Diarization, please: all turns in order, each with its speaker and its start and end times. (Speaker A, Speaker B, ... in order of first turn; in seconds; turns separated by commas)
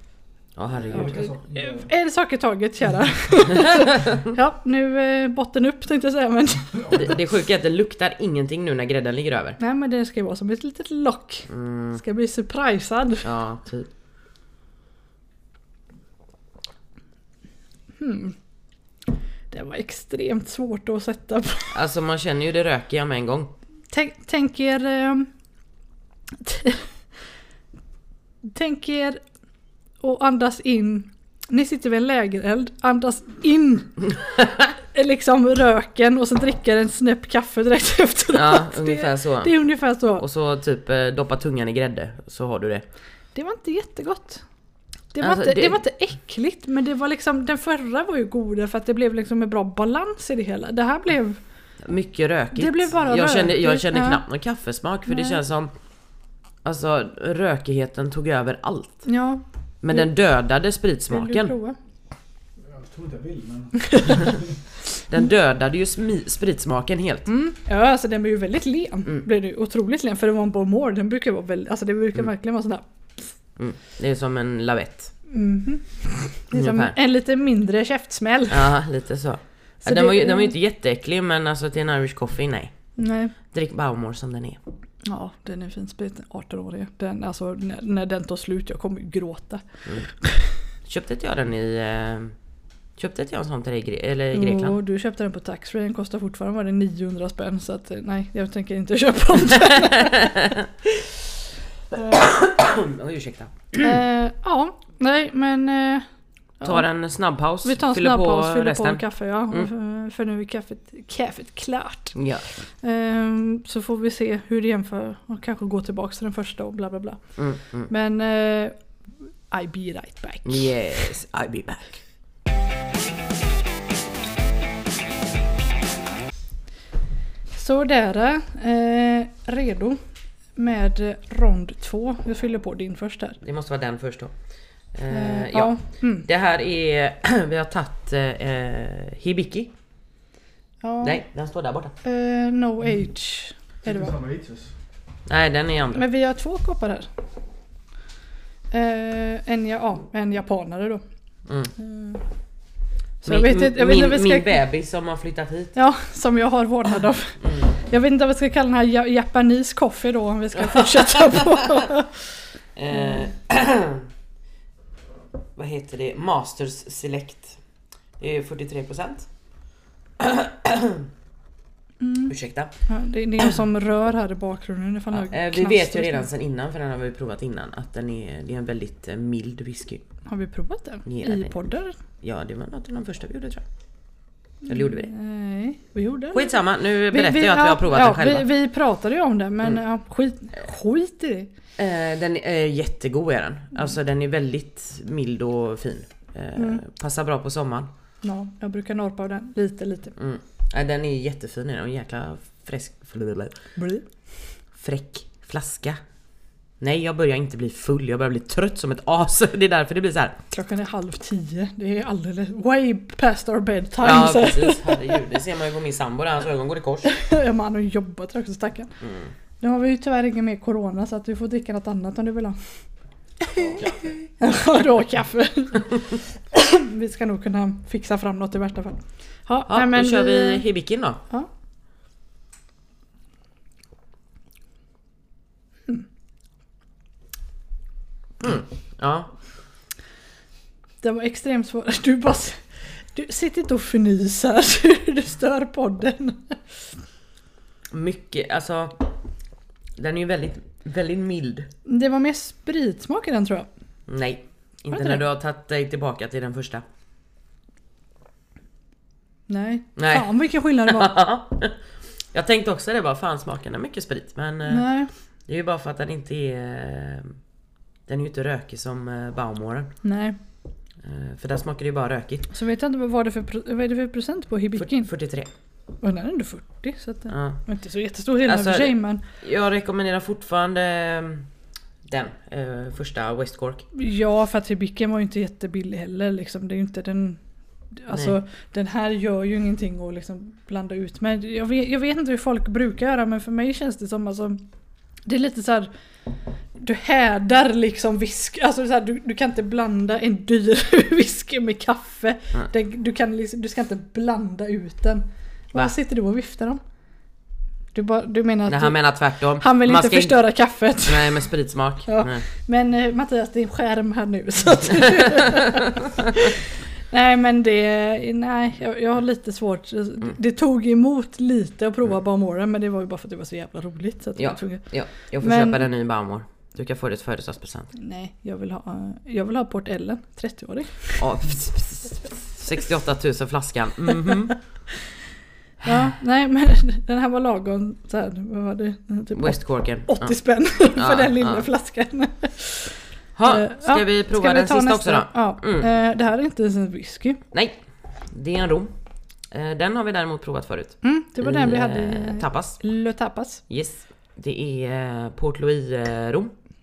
Speaker A: 0.6-1.3, Speaker B: 0.8-1.9, Speaker C: 0.9-6.9, Speaker A: 6.9-9.6, Speaker C: 9.6-13.2, Speaker A: 11.5-12.0, Speaker A: 13.2-13.9, Speaker C: 18.0-18.4, Speaker C: 19.5-21.8, Speaker A: 21.7-23.5, Speaker C: 23.9-25.3, Speaker C: 26.4-26.9, Speaker C: 28.4-29.2, Speaker C: 30.0-34.2, Speaker C: 34.9-40.2, Speaker A: 38.3-39.6, Speaker A: 40.2-42.8, Speaker C: 43.3-44.4, Speaker C: 45.1-51.4, Speaker A: 45.2-45.8, Speaker A: 51.8-55.7, Speaker C: 52.5-54.2, Speaker C: 55.1-55.4, Speaker A: 56.6-59.0, Speaker C: 59.0-60.1, Speaker A: 59.8-61.5, Speaker C: 61.1-61.8, Speaker B: 62.7-64.5, Speaker A: 65.1-67.3, Speaker C: 67.3-72.8, Speaker A: 73.6-75.1, Speaker C: 75.3-78.7, Speaker A: 76.5-77.0, Speaker A: 78.5-82.7, Speaker C: 79.8-80.5, Speaker C: 83.0-83.3, Speaker A: 83.5-84.6, Speaker C: 85.0-90.5, Speaker A: 90.8-92.3, Speaker A: 93.0-94.8, Speaker C: 94.3-100.5, Speaker A: 99.8-100.7, Speaker A: 101.9-103.9, Speaker C: 103.8-106.0, Speaker C: 106.6-106.8, Speaker A: 106.6-109.7, Speaker C: 107.6-112.2, Speaker A: 112.1-112.5, Speaker C: 112.8-117.3, Speaker A: 117.4-117.9, Speaker C: 117.9-118.8, Speaker C: 119.5-121.0, Speaker A: 120.4-122.0, Speaker C: 127.5-130.0, Speaker C: 130.6-133.4, Speaker A: 133.4-134.3, Speaker A: 134.9-139.7, Speaker C: 135.1-136.2, Speaker C: 140.8-141.2, Speaker A: 141.0-141.9, Speaker C: 142.0-144.1, Speaker B: 143.8-144.7, Speaker A: 145.3-146.0, Speaker C: 145.9-147.1, Speaker C: 148.7-151.0, Speaker A: 151.5-151.7, Speaker C: 151.8-152.2, Speaker C: 153.2-154.5, Speaker A: 153.2-155.8, Speaker C: 155.7-162.2, Speaker A: 157.4-157.7, Speaker A: 160.7-161.5, Speaker A: 162.8-164.1, Speaker A: 165.6-167.6, Speaker A: 168.2-169.3, Speaker A: 170.2-171.1, Speaker C: 172.0-172.3, Speaker A: 172.3-172.7, Speaker C: 172.8-176.3, Speaker A: 175.1-180.0, Speaker C: 180.2-181.9, Speaker A: 181.1-181.5, Speaker A: 182.2-183.6, Speaker C: 184.6-186.6, Speaker A: 184.7-185.1, Speaker A: 186.3-188.5, Speaker C: 187.1-191.5, Speaker A: 191.8-197.9, Speaker C: 196.6-196.8, Speaker C: 198.2-200.2, Speaker A: 200.2-203.5, Speaker C: 203.8-204.0, Speaker A: 204.8-206.0, Speaker A: 206.8-210.4, Speaker C: 210.5-215.2, Speaker A: 214.0-217.1, Speaker C: 217.0-218.9, Speaker A: 219.0-219.3, Speaker C: 219.6-222.6, Speaker C: 223.5-223.9, Speaker A: 223.6-224.1, Speaker C: 224.4-230.6, Speaker A: 229.7-231.2, Speaker A: 238.4-239.3, Speaker C: 241.0-246.8, Speaker A: 247.9-249.1, Speaker A: 249.9-251.7, Speaker C: 251.8-253.7, Speaker A: 254.1-256.8, Speaker C: 254.9-255.2, Speaker C: 259.5-261.1, Speaker A: 260.0-261.7, Speaker A: 262.3-264.9, Speaker C: 264.7-265.1, Speaker A: 265.5-267.3, Speaker A: 268.1-269.9, Speaker C: 270.0-270.4, Speaker A: 271.0-272.5, Speaker C: 272.5-275.1, Speaker A: 274.8-275.5, Speaker C: 276.0-279.2, Speaker A: 277.3-277.6, Speaker A: 278.4-281.4, Speaker A: 282.1-283.8, Speaker C: 283.9-287.4, Speaker C: 288.0-294.6, Speaker C: 295.2-295.9, Speaker C: 296.8-306.8, Speaker C: 307.9-309.0, Speaker A: 308.7-310.5, Speaker C: 309.6-311.4, Speaker A: 311.0-312.4, Speaker C: 312.1-324.8, Speaker A: 324.4-327.9, Speaker C: 325.4-325.9, Speaker C: 327.9-331.2, Speaker A: 331.2-334.6, Speaker C: 335.8-347.4, Speaker A: 339.3-340.3, Speaker A: 340.9-341.6, Speaker A: 343.4-345.9, Speaker A: 348.3-348.9, Speaker A: 349.5-352.8, Speaker C: 351.0-353.6, Speaker A: 353.7-356.5